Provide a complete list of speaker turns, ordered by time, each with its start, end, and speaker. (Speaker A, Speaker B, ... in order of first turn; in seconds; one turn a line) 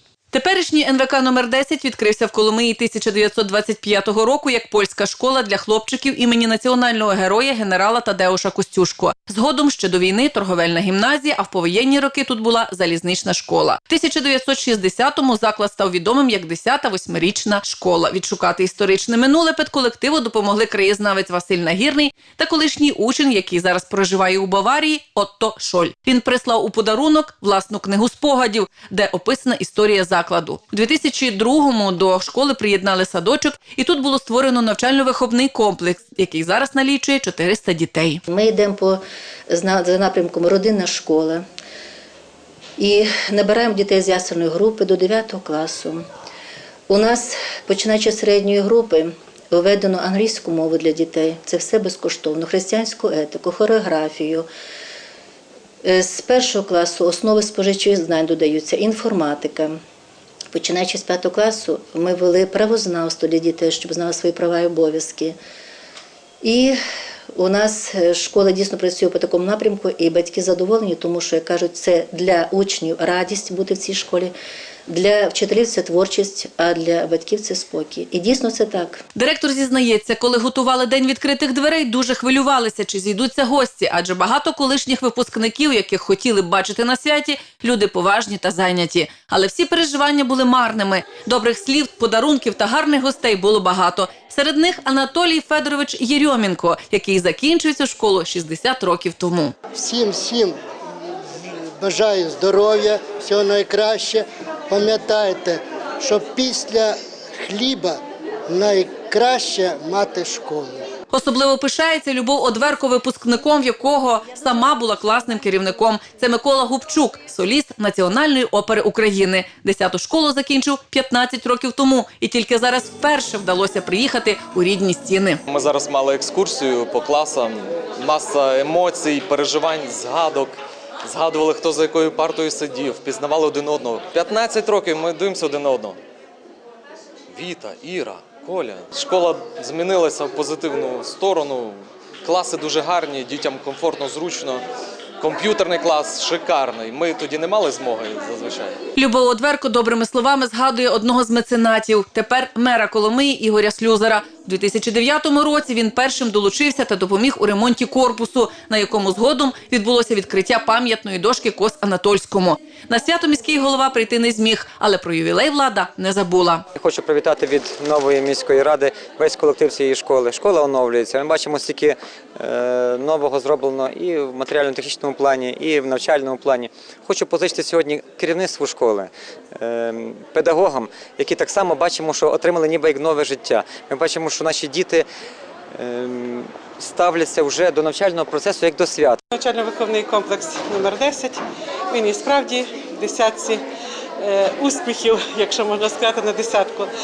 Speaker A: 0.3-38.2
Speaker B: 38.3-41.4
Speaker B: 42.8-46.0
Speaker B: 46.9-54.5
Speaker B: 55.8-59.8
Speaker B: 60.5-65.4
Speaker B: 66.4-66.8
Speaker B: 67.3-74.3
Speaker B: 74.9-79.0
Speaker A: 79.2-99.5
Speaker C: 99.8-100.6
Speaker C: 101.8-110.8
Speaker A: 111.1-125.4
Speaker D: 125.5-136.0
Speaker D: 137.3-144.6
Speaker D: 145.2-148.8
Speaker A: 149.0-166.7
Speaker E: 166.8-185.1
Speaker E: 185.7-189.2
Speaker F: 189.3-191.4
Speaker F: 191.9-193.6
Speaker F: 194.2-196.9